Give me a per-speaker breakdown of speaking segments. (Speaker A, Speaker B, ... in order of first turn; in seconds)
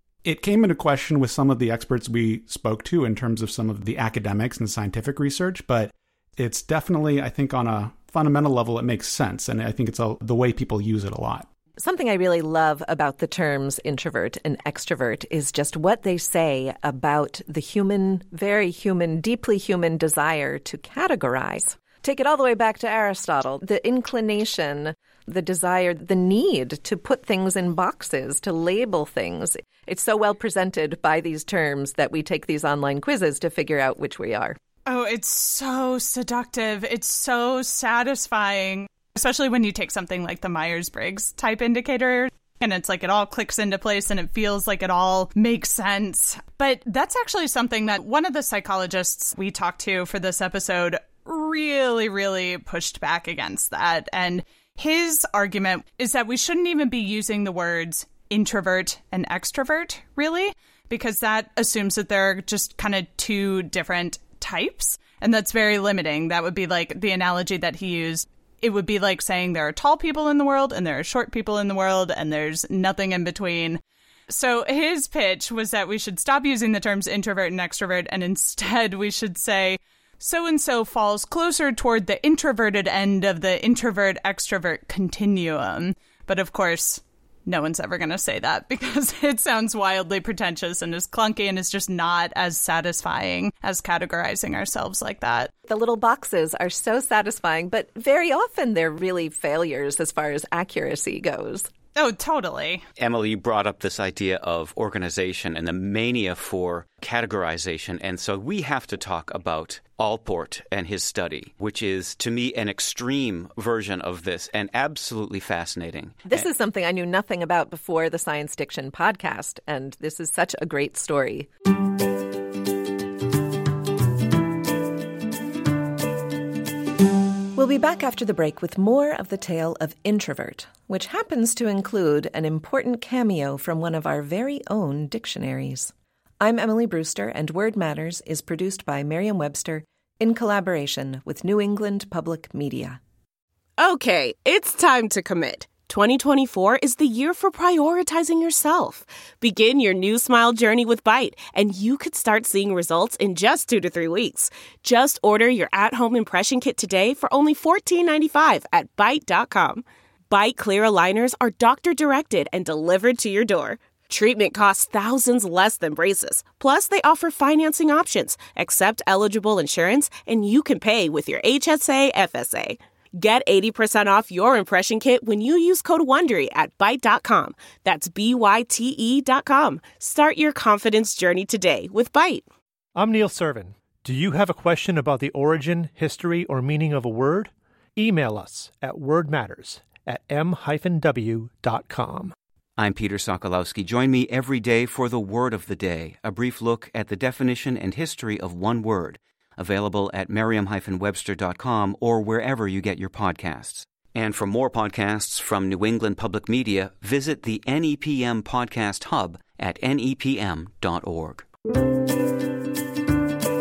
Speaker A: 0.2-11.5
Speaker B: 11.8-34.6, 95.7-101.7, 116.3-121.5, 127.6-143.0
Speaker C: 34.9-95.5, 102.0-102.8
Speaker D: 103.0-116.5, 192.8-211.5
Speaker E: 143.8-182.4
Speaker F: 183.0-192.3